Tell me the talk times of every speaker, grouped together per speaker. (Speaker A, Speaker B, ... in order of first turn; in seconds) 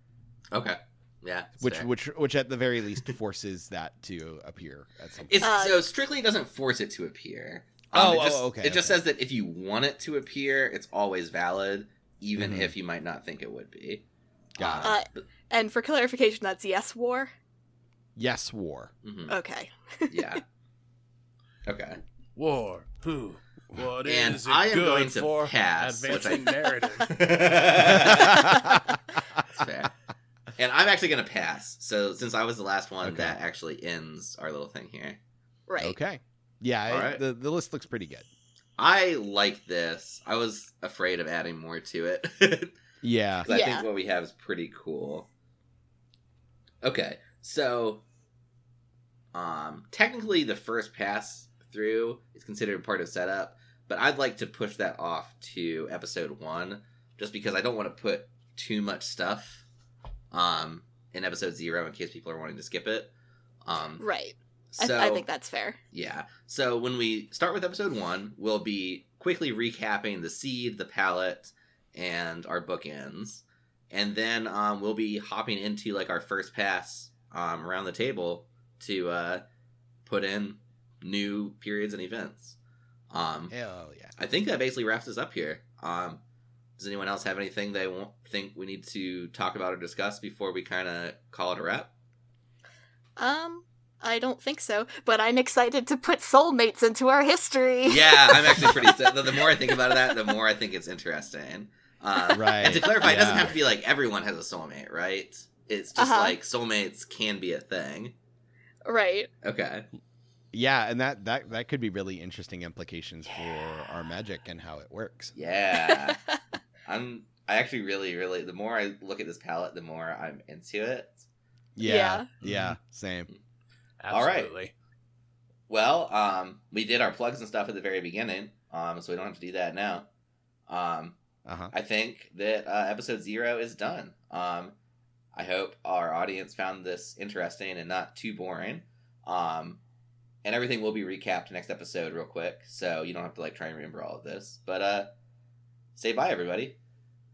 Speaker A: 0.5-1.9, 5.3-14.0, 14.6-15.2, 19.0-19.4, 20.1-20.4, 21.6-22.0, 24.1-28.7, 29.5-29.9, 30.6-35.2, 36.9-37.2, 38.8-42.8, 43.4-45.3, 46.8-48.0, 49.3-59.6, 60.3-63.1, 63.6-64.0, 64.7-65.3, 65.9-79.4, 80.1-82.6, 83.1-83.5, 84.2-86.2, 86.8-91.9, 97.9-108.1, 109.4-109.9, 115.3-116.2, 116.8-121.3, 124.1-124.5, 125.7-130.1, 130.7-131.2, 131.7-134.8, 135.3-139.8, 140.4-145.1, 146.0-146.8
Speaker B: 1.6-5.5, 7.9-9.0, 12.4-12.7, 14.6-15.0, 18.2-18.9, 27.9-28.8, 33.0-33.4, 35.8-38.3, 43.0-43.5, 83.5-84.1, 102.3-103.6, 110.5-115.3, 121.8-123.3, 131.4-131.7
Speaker C: 5.4-5.8, 14.8-17.3, 19.3-20.4, 35.7-36.0, 43.5-43.9, 64.0-65.8, 93.2-100.2, 106.0-106.4, 108.8-109.3, 115.8-116.4, 121.8-122.3
Speaker D: 22.4-27.2, 122.4-122.8, 124.0-124.7